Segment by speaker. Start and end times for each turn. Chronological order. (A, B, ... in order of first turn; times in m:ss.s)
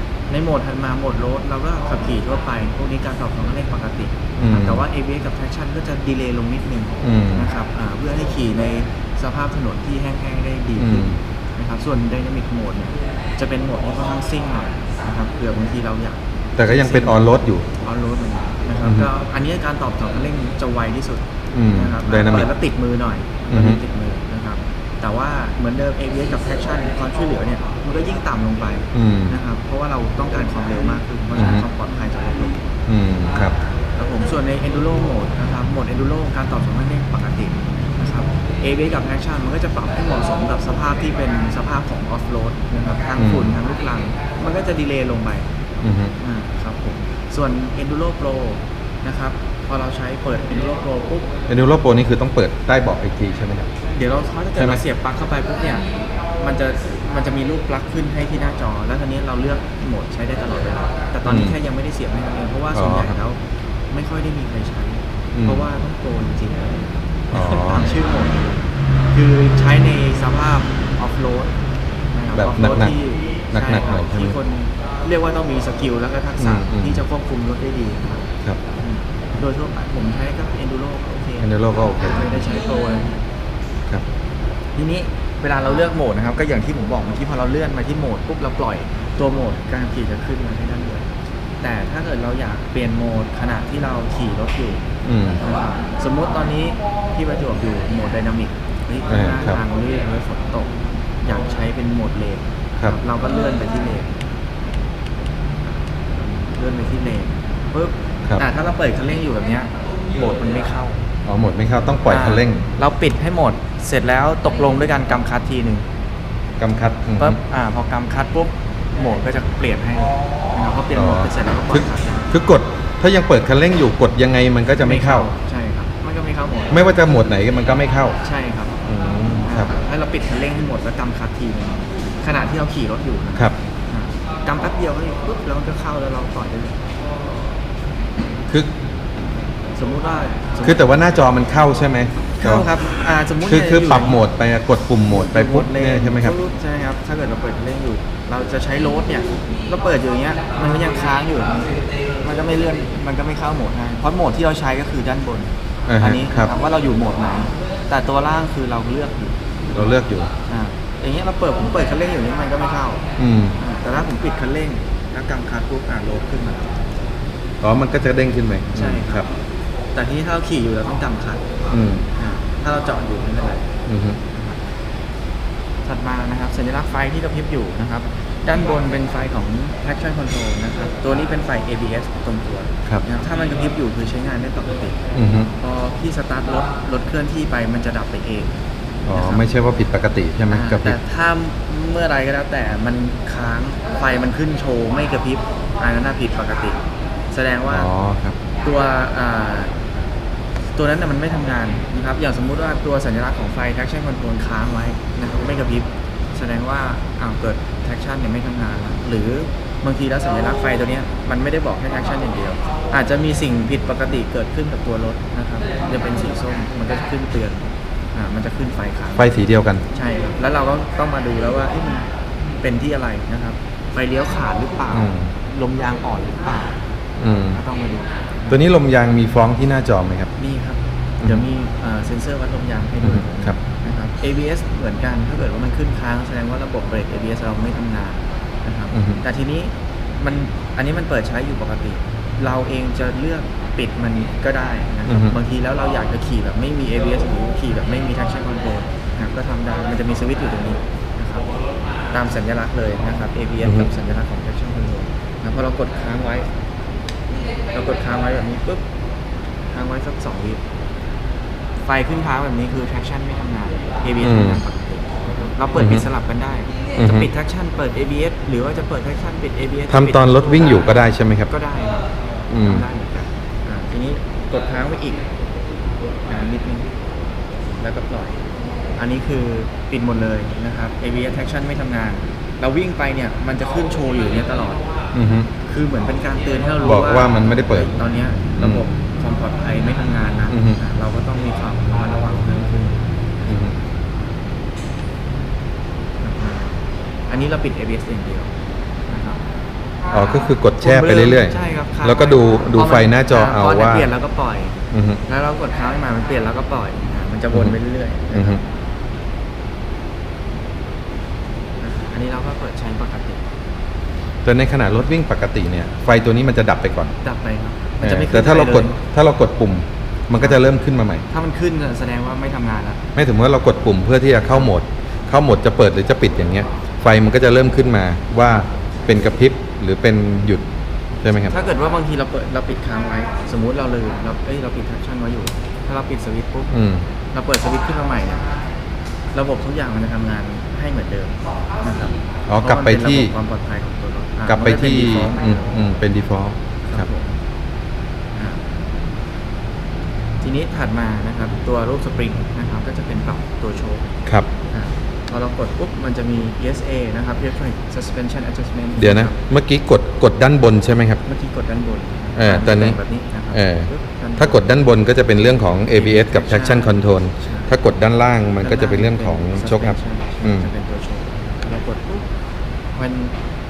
0:00.3-0:32.6 A
0:04.4-0:04.8 B
0:07.0-0:07.5 B
0:10.8-0:11.2 B
0:16.6-0:17.7 B
0:18.8-0:19.1 B
0:21.5-0:22.5 B
0:23.5-0:23.8 B
0:28.9-0:29.4 B
0:31.3-0:31.7 B
0:32.9-0:33.6 B
0:34.0-0:45.5 A
0:43.2-0:43.6 B
0:45.8-0:46.1 B
0:46.2-0:51.3 A
0:51.5-0:53.7 B
0:53.9-0:55.9 A
0:54.6-0:54.8 B
0:56.4-1:03.4 A
1:01.3-1:01.6 B
1:02.7-1:03.2 B
1:03.9-1:11.6 A
1:05.3-1:05.6 B
1:07.3-1:07.9 B
1:12.1-1:18.3 A
1:12.3-1:13.0 B
1:13.5-1:14.4 B
1:16.4-1:17.0 B
1:18.8-1:23.2 A
1:21.4-1:22.4 B
1:24.8-1:31.1 A
1:31.6-1:34.9 A
1:35.0-1:35.4 B
1:35.4-1:44.1 A
1:39.1-1:39.6 B
1:46.1-1:51.0 A
1:51.2-1:52.7 B
1:52.1-1:55.9 A
1:56.6-1:57.4 B
1:57.2-2:02.3 A
2:00.9-2:05.3 B
2:04.8-2:06.9 A
2:06.7-2:08.2 B
2:08.2-2:08.8 A
2:08.8-2:09.7 B
2:09.4-2:16.8 A
2:19.8-2:20.8 A
2:20.6-2:22.7 B
2:22.4-2:24.2 A
2:23.5-2:26.4 B
2:25.1-2:39.9 A
2:35.9-2:36.5 B
2:39.7-2:40.3 B
2:40.5-2:43.1 A
2:43.2-2:43.6 B
2:43.6-2:46.8 A
2:47.6-2:49.3 B
2:48.7-2:49.3 A
2:49.9-2:51.5 A
2:51.7-2:52.0 B
2:52.2-2:53.7 A
2:53.9-2:54.2 B
2:54.3-2:54.6 A
2:55.9-3:05.0 A
3:05.1-3:05.5 B
3:05.5-3:08.6 A
3:09.0-3:11.0 B
3:09.1-3:09.4 A
3:10.5-3:16.8 A
3:17.3-3:17.9 A
3:17.7-3:18.4 B
3:18.6-3:19.8 A
3:20.8-3:39.4 A
3:39.2-3:39.8 B
3:39.9-3:42.1 A
3:42.6-3:46.8 A
3:44.9-3:45.3 B
3:47.2-3:47.6 B
3:47.4-3:48.6 A
3:48.5-3:50.3 B
3:50.4-4:11.5 A
3:53.0-3:53.6 B
3:58.9-3:59.2 B
4:05.1-4:05.4 B
4:12.1-4:16.5 A
4:13.6-4:13.9 B
4:17.7-4:18.8 A
4:19.7-4:20.6 A
4:21.8-4:32.1 A
4:24.2-4:24.6 B
4:25.8-4:26.1 B
4:27.0-4:27.3 B
4:29.9-4:31.5 B
4:32.5-4:32.9 B
4:32.6-4:35.2 A
4:36.3-4:37.0 A
4:37.8-4:38.4 A
4:39.0-4:44.8 A
4:45.1-4:45.5 B
4:45.6-4:53.5 A
4:46.8-4:48.0 B
4:48.5-4:48.8 B
4:50.5-4:50.8 B
4:53.5-4:53.8 B
4:56.2-4:58.5 A
4:59.1-4:59.4 A
5:00.1-5:04.1 B
5:00.8-5:08.6 A
5:04.9-5:05.2 B
5:08.3-5:08.6 B
5:11.8-5:13.5 A
5:14.4-5:17.1 B
5:17.2-5:19.0 A
5:18.0-5:21.2 B
5:21.3-5:23.0 A
5:23.2-5:30.6 B
5:31.2-5:31.6 B
5:31.5-5:36.7 A
5:36.7-5:37.1 B
5:37.3-5:38.5 A
5:39.3-5:45.8 A
5:42.5-5:43.3 B
5:44.5-5:47.1 B
5:46.9-5:47.4 A
5:48.4-5:48.6 A
5:50.4-5:54.1 A
5:54.7-5:59.4 A
5:59.0-6:01.2 B
6:01.2-6:04.7 A
6:02.4-6:03.0 B
6:03.5-6:10.7 B
6:05.9-6:07.7 A
6:08.6-6:12.3 A
6:13.0-6:13.4 A